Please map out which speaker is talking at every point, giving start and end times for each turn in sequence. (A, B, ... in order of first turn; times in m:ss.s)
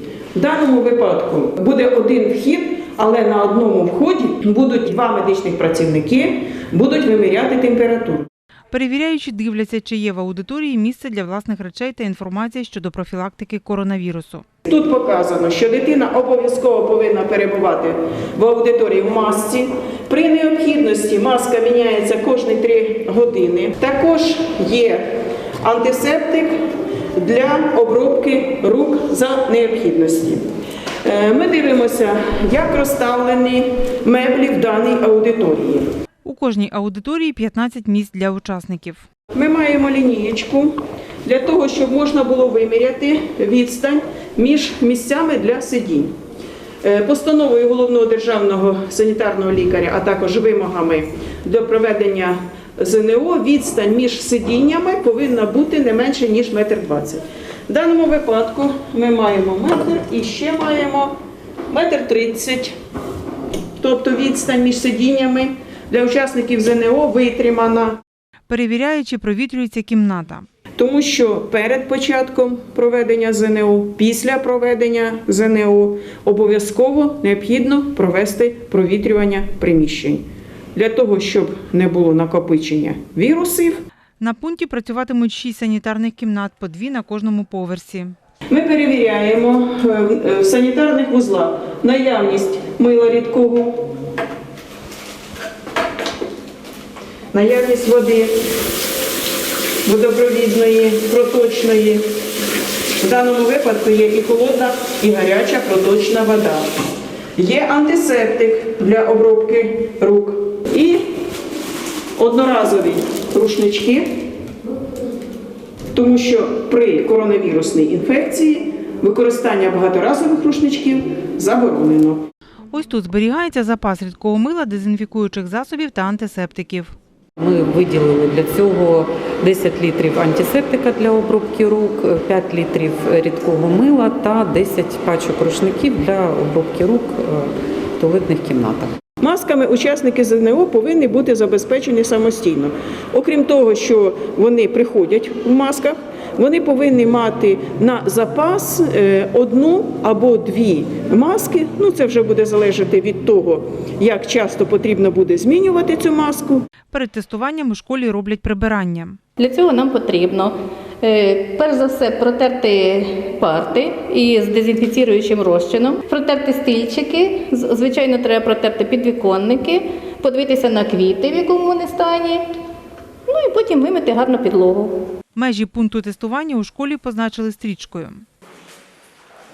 0:00.3-0:08.3 A
0:08.7-0:14.4 B
0:14.6-0:26.6 A
0:27.1-0:30.4 A
0:31.0-0:35.9 A
0:36.2-0:39.0 B
0:39.3-0:46.1 A
0:46.8-1:01.1 A
1:01.7-1:02.7 A
1:03.8-1:08.0 A
1:08.5-1:10.4 B
1:10.8-1:20.2 A
1:20.7-1:23.8 A
1:24.2-1:28.1 B
1:28.5-1:33.9 A
1:37.3-1:38.3 A
1:39.8-1:42.0 A
1:43.0-1:46.7 A
1:47.4-1:51.0 A
1:52.2-1:54.1 A
1:55.9-2:02.2 A
2:02.7-2:06.9 B
2:07.4-2:18.9 C
2:19.2-2:36.6 A
2:36.9-2:39.2 B
2:39.4-2:52.4 D
2:53.3-2:55.0 D
2:55.3-2:58.2 B